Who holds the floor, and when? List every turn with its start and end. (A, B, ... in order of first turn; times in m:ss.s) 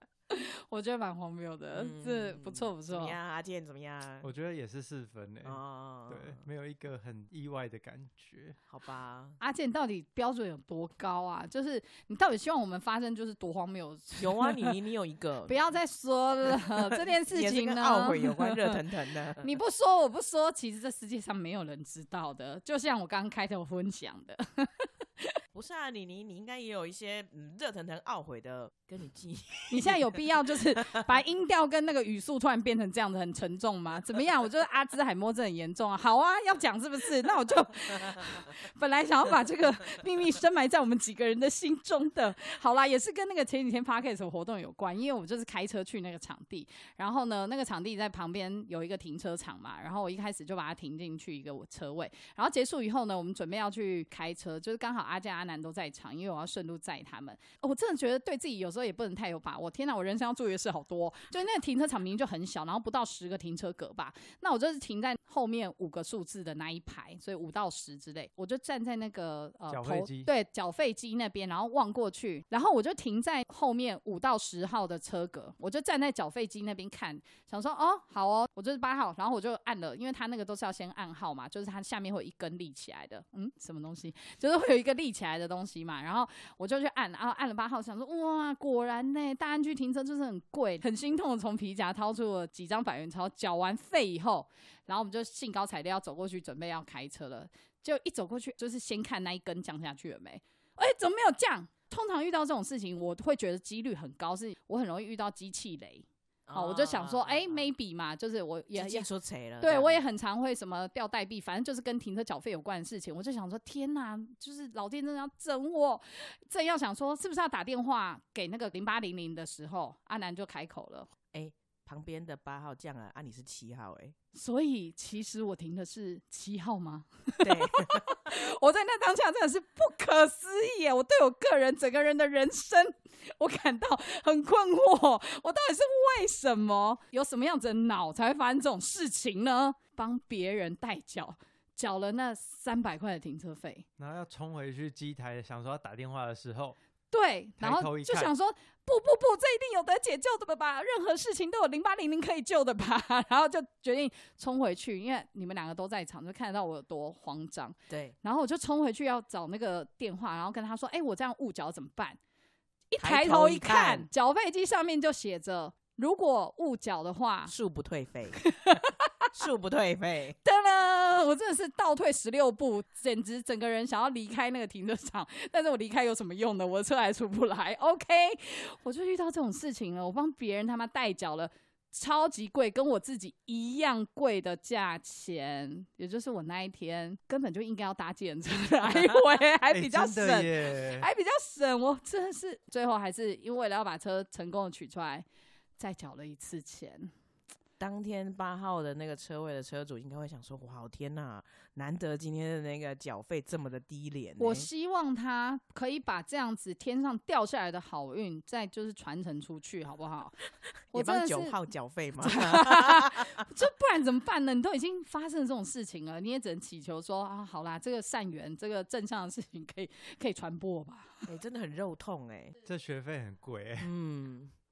0:00.3-0:03.2 A
0:01.7-0:04.3 B
0:04.2-0:08.6 C
0:05.4-0:06.5 B
0:08.7-0:09.4 B
0:09.4-0:14.7 A
0:14.2-0:15.6 B
0:15.4-0:18.8 A
0:16.9-0:19.5 B
0:19.4-0:25.3 A
0:25.5-0:30.2 B
0:29.7-1:49.1 A
1:09.7-1:10.3 C
1:46.5-1:47.7 B
1:48.7-1:50.0 B
1:49.6-2:01.1 A
2:01.3-2:04.1 B
2:04.3-2:23.8 A
2:07.4-2:08.1 B
2:24.0-2:26.8 C
2:27.1-2:42.2 A
2:27.6-2:28.3 C
2:37.9-2:38.1 B
2:42.9-2:47.5 A
2:43.0-2:44.1 B
2:47.5-2:48.4 B
2:48.4-2:49.3 A
2:49.3-2:50.4 B
2:50.4-3:15.2 A
3:09.7-3:11.1 C
3:15.8-3:17.1 A
3:17.8-3:24.7 B
3:24.4-3:30.4 A
3:30.9-3:33.4 B
3:30.9-3:31.6 A
3:32.2-3:41.2 A
3:41.2-3:42.5 B
3:42.6-3:43.9 C
3:43.8-3:44.5 B